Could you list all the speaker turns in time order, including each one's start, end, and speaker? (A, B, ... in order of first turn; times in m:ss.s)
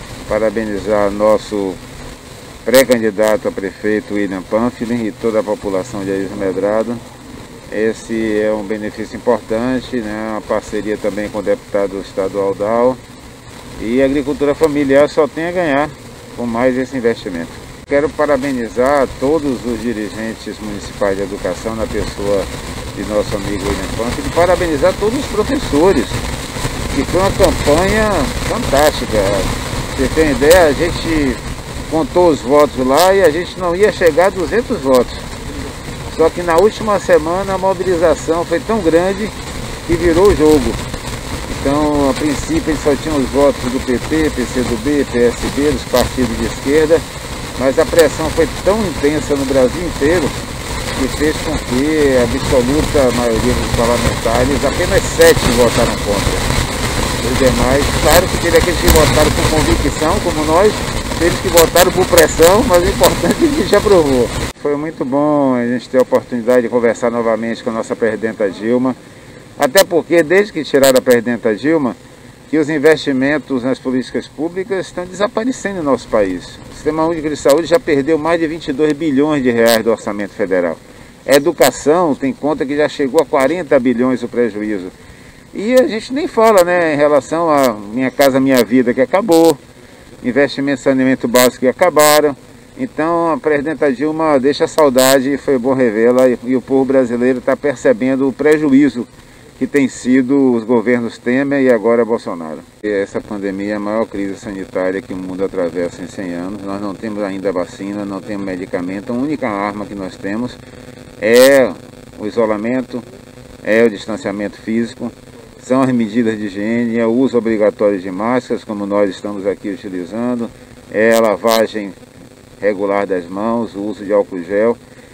0:00.2-0:01.8 A
0:02.6-0:07.0 A
0:07.7-0:13.0 A
0:13.8-0:26.2 A
0:26.9-0:35.3 A
0:36.1-0:40.8 A
0:41.5-0:47.0 A
0:47.6-0:50.3 A
0:50.9-0:56.5 A
0:57.2-1:09.0 A
1:09.6-1:12.0 A
1:12.5-1:24.9 A
1:25.5-1:29.6 A
1:30.2-1:50.6 A
1:51.2-1:53.0 A
1:53.6-2:02.0 A
2:02.6-2:04.8 A